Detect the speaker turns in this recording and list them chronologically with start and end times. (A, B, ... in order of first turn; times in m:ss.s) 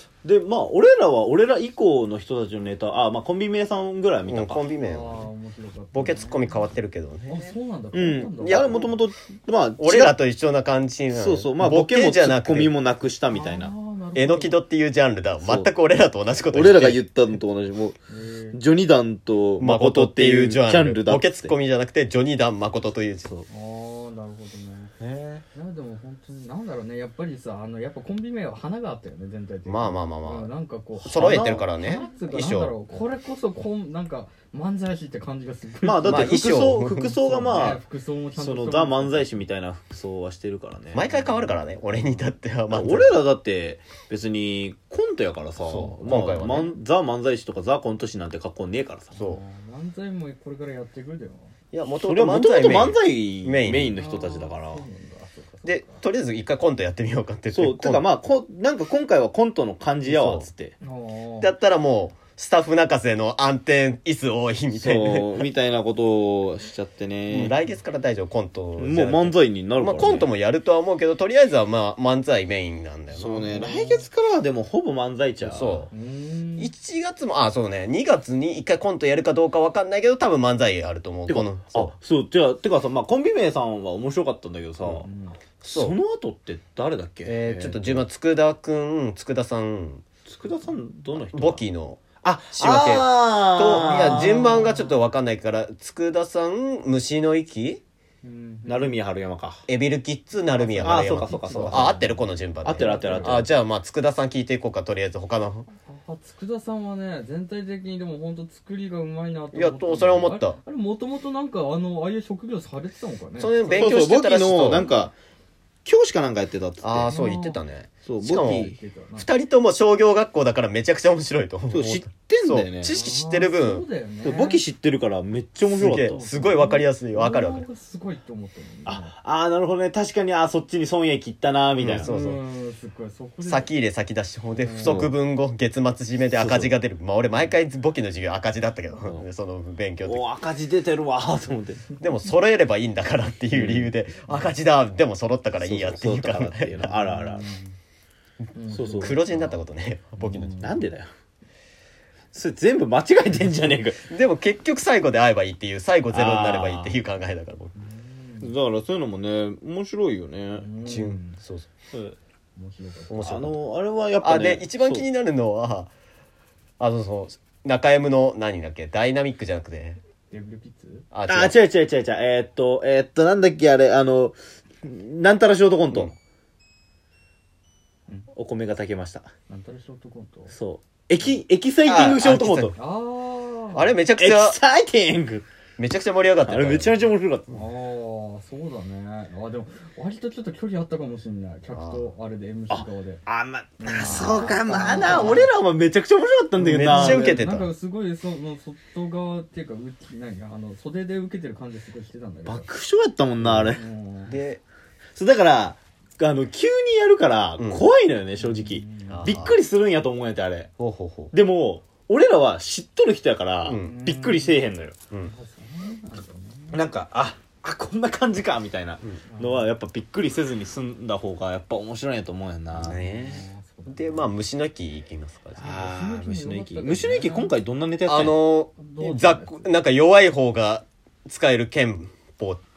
0:00.2-0:04.6 A
0:04.2-0:05.3 B
0:04.8-0:06.6 C
0:05.9-0:07.5 B
0:07.3-0:08.9 C
0:07.9-0:10.1 A
0:08.3-0:08.8 B
0:09.8-0:12.7 B
0:11.1-0:13.7 A
0:13.3-0:14.6 C
0:14.1-0:17.0 B
0:15.4-0:15.7 A
0:16.5-0:18.0 A
0:18.1-0:18.6 C
0:18.5-0:21.5 A
0:19.6-0:23.3 B
0:23.5-0:36.4 C
0:25.0-0:25.3 A
0:29.6-0:30.5 B
0:31.0-0:31.7 A
0:31.0-0:32.7 B
0:35.8-0:37.8 A
0:36.0-0:37.2 B
0:37.2-0:39.4 C
0:38.3-0:41.0 A
0:40.9-0:43.2 B
0:41.0-0:41.6 C
0:42.7-0:49.1 A
0:45.6-0:46.7 B
0:49.1-0:51.5 C
0:51.7-0:54.0 B
0:52.0-0:54.8 A
0:54.0-0:56.0 C
0:55.6-0:58.0 B
0:57.5-1:00.7 A
1:00.0-1:00.5 B
1:00.8-1:01.5 C
1:01.4-1:05.4 B
1:04.7-1:07.5 A
1:07.3-1:13.6 B
1:08.8-1:10.3 A
1:13.1-1:15.9 A
1:13.6-1:14.0 C
1:15.4-1:15.9 B
1:15.9-1:16.7 C
1:16.6-1:21.9 B
1:21.3-1:25.1 A
1:25.0-1:25.4 C
1:25.6-1:26.0 B
1:25.6-1:28.0 A
1:27.2-1:30.0 B
1:30.2-1:31.6 A
1:31.2-1:37.8 B
1:32.2-1:34.6 A
1:33.7-1:35.0 C
1:38.2-1:39.0 C
1:38.7-1:39.6 A
1:39.7-1:45.7 B
1:40.5-1:42.2 C
1:40.8-1:43.5 A
1:42.7-1:43.5 C
1:45.8-1:54.0 C
1:49.5-1:50.6 B
1:53.4-1:54.8 B
1:53.7-1:55.1 A
1:54.7-1:55.1 C
1:55.8-1:57.2 A
1:56.8-2:03.8 B
1:57.1-1:57.6 C
1:58.0-1:58.8 A
1:58.3-1:59.3 C
2:01.7-2:02.9 A
2:02.8-2:04.6 C
2:04.2-2:06.2 A
2:05.7-2:07.6 B
2:06.0-2:09.1 C
2:08.8-2:12.1 A
2:11.8-2:12.4 B
2:12.0-2:13.7 C
2:13.4-2:20.2 B
2:14.5-2:15.1 C
2:14.8-2:15.1 A
2:16.3-2:16.7 A
2:20.0-2:21.8 A
2:22.0-2:26.9 B
2:23.5-2:23.9 A
2:25.6-2:27.5 A
2:26.8-2:27.7 C
2:28.5-2:29.6 C
2:28.7-2:29.2 A
2:28.9-2:30.7 B
2:30.2-2:30.7 C
2:30.6-2:31.1 A
2:32.3-2:34.0 A
2:34.1-2:37.7 B
2:36.1-2:37.0 A
2:37.8-2:38.5 C
2:38.4-2:40.7 A
2:40.6-2:41.4 C
2:40.8-2:41.7 B
2:42.6-2:43.4 C
2:43.1-2:43.6 B
2:43.2-2:45.0 A
2:44.2-2:45.9 B
2:46.8-2:50.0 B
2:50.3-2:51.0 C
2:51.1-2:51.5 B
2:51.3-2:56.1 A
2:58.3-2:59.3 A
2:59.5-3:00.5 C
3:00.5-3:02.7 A
3:01.8-3:02.7 B
3:02.8-3:03.9 C
3:03.7-3:04.6 B
3:04.2-3:05.4 A
3:05.8-3:07.0 B
3:06.4-3:07.6 A
3:07.5-3:13.2 C
3:11.7-3:12.0 B
3:12.7-3:17.5 A
3:13.8-3:15.5 C
3:14.0-3:15.5 B
3:16.6-3:22.7 C
3:16.6-3:17.7 B
3:22.4-3:23.8 A
3:23.4-3:24.4 C
3:24.3-3:24.6 B
3:25.2-3:30.7 A
3:27.6-3:27.8 B
3:28.4-3:29.4 C
3:29.1-3:29.5 B
3:30.8-3:31.3 B
3:31.3-3:35.0 A
3:33.6-3:34.0 B
3:33.8-3:34.6 C
3:35.2-3:36.8 C
3:36.7-3:43.0 A
3:39.3-3:39.6 C
3:42.8-3:45.8 B
3:42.8-3:44.3 C
3:45.6-3:48.4 A
3:45.6-3:47.5 C
3:48.1-3:52.6 B
3:48.8-3:49.7 C